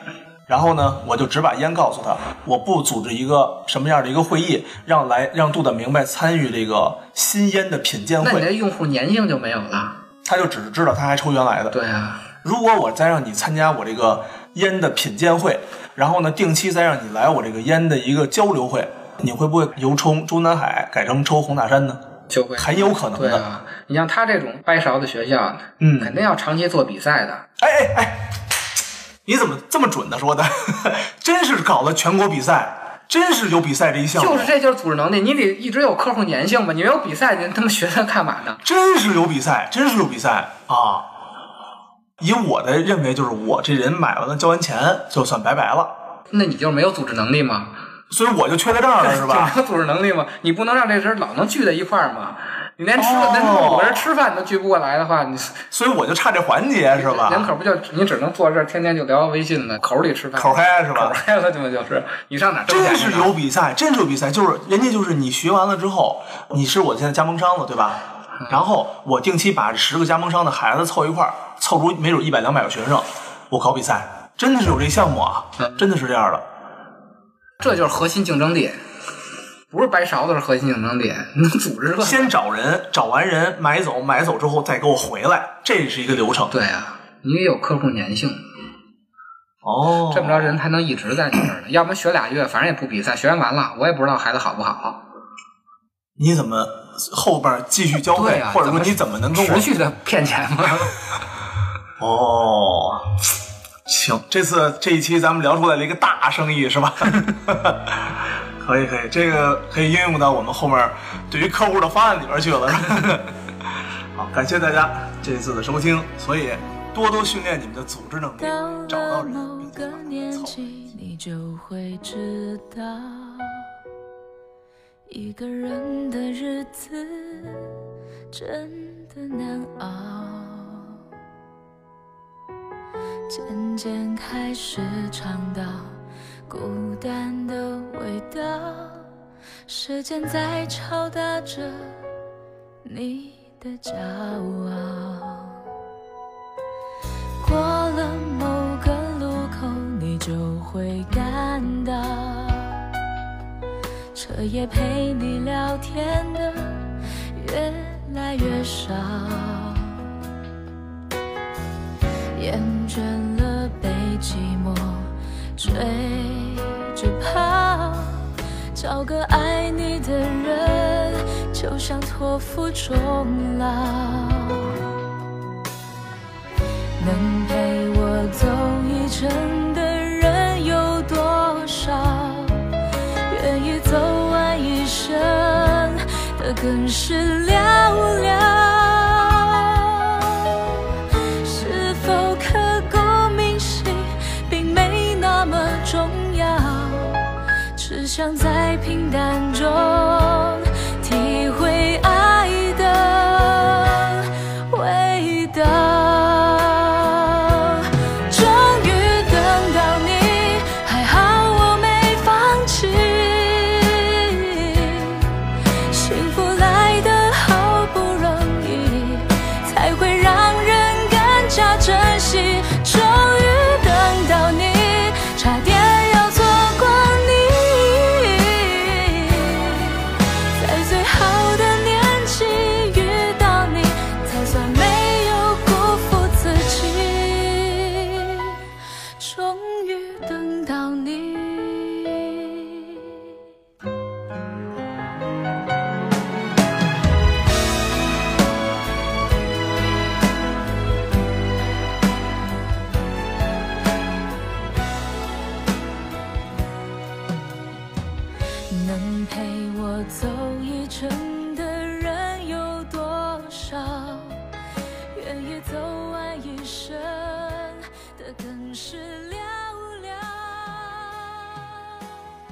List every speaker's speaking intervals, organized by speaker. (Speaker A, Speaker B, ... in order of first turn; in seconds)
Speaker A: 0.5-8.5, 10.2-11.8, 12.4-22.0, 22.6-23.5, 25.8-26.2, 27.6-28.4, 29.2-34.5, 38.6-41.1, 42.2-45.9, 48.1-49.6, 53.0-54.1, 55.7-57.5, 60.4-61.2, 62.7-76.5, 82.0-86.5, 89.6-90.6, 96.2-99.7, 102.0-103.2, 103.9-113.4, 114.1-120.9
Speaker B: 8.2-10.0, 11.7-12.2, 22.3-27.5, 34.2-38.6, 46.3-47.8, 49.0-55.6, 56.9-63.4, 68.4-68.6, 77.6-78.8, 79.7-82.3, 86.5-88.5, 90.1-95.0, 98.1-101.0
Speaker C: 118.4-123.7, 125.1-127.8, 128.3-131.0, 133.3-139.1, 139.7-142.0, 142.8-145.6, 147.4-152.8, 154.1-160.1, 162.3-174.8, 177.0-182.7, 183.3-190.9, 191.4-215.4, 215.9-238.6, 239.2-243.2, 258.7-264.5, 265.1-272.0